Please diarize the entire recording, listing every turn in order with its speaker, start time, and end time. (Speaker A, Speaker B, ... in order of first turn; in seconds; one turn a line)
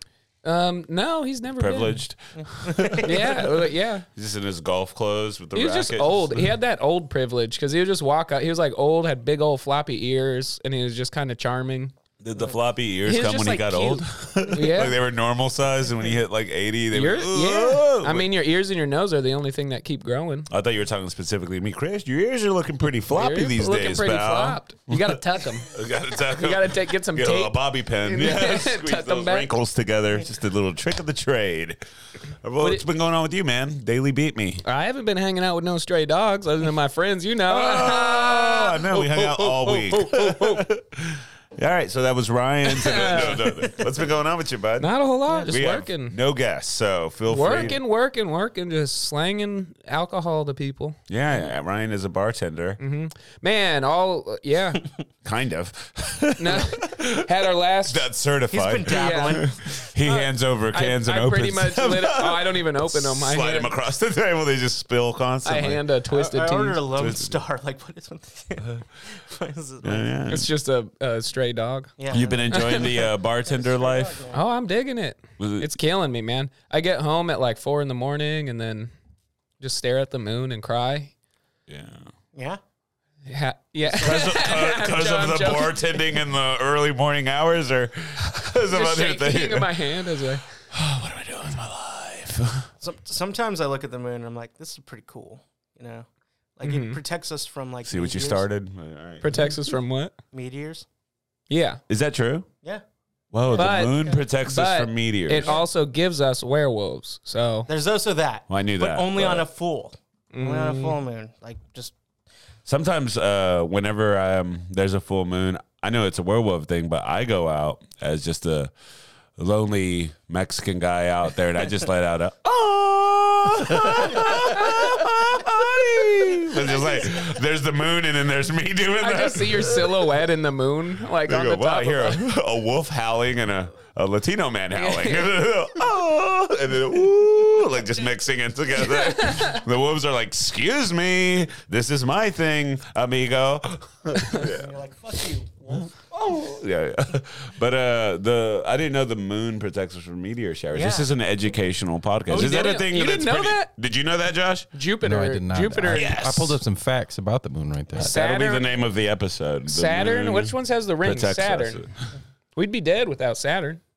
Speaker A: 0.4-2.0
Speaker B: 1.6-3.5
Speaker C: 2.3-3.4
Speaker A: 3.0-4.0
Speaker B: 4.1-6.5
Speaker A: 5.5-11.9
Speaker B: 12.2-18.3
Speaker A: 13.0-14.9
Speaker A: 16.9-20.5
Speaker B: 20.5-31.8
Speaker A: 23.1-25.7
Speaker A: 26.4-29.5
Speaker B: 32.4-34.6
Speaker A: 34.6-40.7
Speaker B: 37.5-44.9
Speaker A: 42.6-43.8
Speaker A: 44.8-46.1
Speaker C: 45.3-45.5
Speaker B: 45.5-47.8
Speaker A: 47.3-51.0
Speaker B: 51.1-52.8
Speaker A: 52.8-54.9
Speaker B: 55.2-57.3
Speaker A: 56.4-58.0
Speaker B: 57.8-65.8
Speaker C: 58.5-59.5
Speaker A: 58.9-59.4
Speaker A: 60.0-63.7
Speaker A: 65.4-66.8
Speaker C: 66.1-70.1
Speaker B: 67.0-67.4
Speaker B: 69.8-70.5
Speaker A: 70.3-71.9
Speaker C: 72.0-74.4
Speaker B: 72.1-74.2
Speaker A: 72.5-72.9
Speaker A: 74.3-78.9
Speaker B: 75.4-75.7
Speaker A: 79.6-81.1
Speaker B: 81.7-82.0
Speaker C: 82.3-82.6
Speaker A: 83.2-86.1
Speaker C: 83.9-84.3
Speaker B: 83.9-90.0
Speaker A: 88.7-90.5
Speaker B: 90.7-92.7
Speaker C: 92.8-96.1
Speaker C: 96.6-98.5
Speaker A: 96.6-97.0
Speaker B: 97.8-99.3
Speaker A: 99.2-100.1
Speaker C: 100.3-100.8
Speaker A: 101.5-101.8
Speaker B: 101.9-102.5
Speaker B: 103.3-105.6
Speaker C: 103.5-104.2
Speaker A: 103.5-107.7
Speaker C: 105.3-105.6
Speaker C: 107.7-111.9
Speaker B: 108.5-109.5
Speaker A: 110.3-111.0
Speaker B: 112.7-118.7
Speaker B: 119.4-130.1
Speaker A: 129.0-132.2
Speaker B: 131.2-144.7
Speaker A: 134.7-135.3
Speaker A: 138.8-139.6
Speaker C: 144.3-146.0
Speaker B: 145.7-154.7
Speaker C: 150.7-151.1
Speaker A: 152.3-153.7
Speaker A: 154.7-156.2
Speaker D: 155.0-158.1
Speaker B: 155.9-156.6
Speaker A: 157.9-158.7
Speaker B: 157.9-162.1
Speaker A: 159.7-161.8
Speaker A: 162.5-163.8